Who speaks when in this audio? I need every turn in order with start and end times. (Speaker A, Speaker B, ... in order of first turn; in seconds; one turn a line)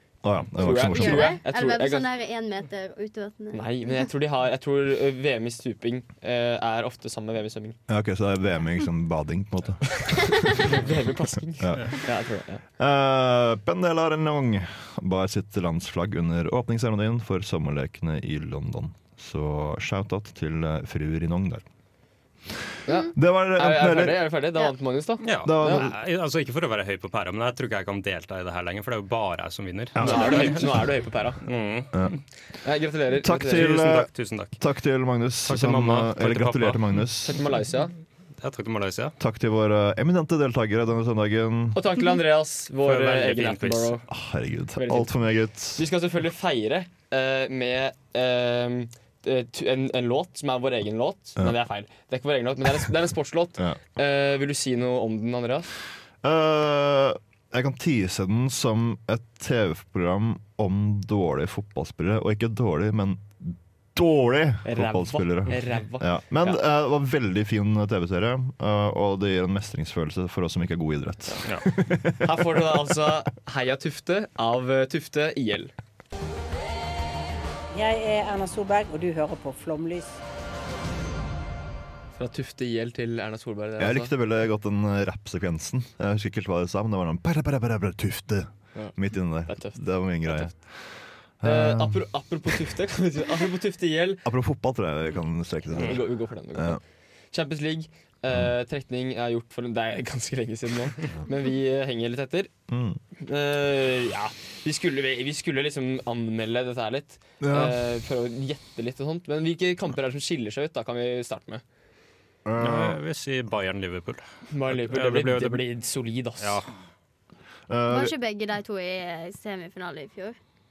Speaker A: 0.2-1.4
Speaker B: 0.6-2.0
Speaker C: 0.7-3.9
Speaker B: 3.5-7.8
Speaker A: 7.9-10.7
Speaker B: 10.6-12.6
Speaker A: 11.6-12.0
Speaker A: 12.8-21.6
Speaker B: 22.9-25.9
Speaker A: 23.1-24.3
Speaker D: 25.2-30.7
Speaker A: 25.4-25.9
Speaker A: 29.9-30.7
Speaker B: 30.0-31.4
Speaker D: 31.4-32.2
Speaker B: 32.6-33.9
Speaker A: 33.1-37.4
Speaker D: 33.5-34.5
Speaker D: 35.4-36.9
Speaker B: 37.2-37.9
Speaker D: 38.4-39.1
Speaker A: 39.2-41.8
Speaker B: 41.7-44.0
Speaker D: 42.8-44.0
Speaker A: 44.1-45.8
Speaker B: 44.8-45.1
Speaker B: 45.7-55.7
Speaker A: 56.2-72.9
Speaker B: 64.6-66.6
Speaker B: 71.2-71.5
Speaker B: 72.1-75.7
Speaker E: 77.7-80.2
Speaker B: 82.2-84.1
Speaker A: 83.8-90.9
Speaker B: 88.7-90.5
Speaker A: 91.4-92.5
Speaker B: 91.4-94.2
Speaker A: 94.2-96.8
Speaker B: 95.7-102.5
Speaker A: 102.7-103.0
Speaker B: 103.2-111.6
Speaker A: 107.4-107.8
Speaker A: 112.4-113.0
Speaker D: 112.6-115.6
Speaker B: 114.5-116.6
Speaker D: 116.4-116.7
Speaker A: 117.7-118.1
Speaker C: 117.9-120.4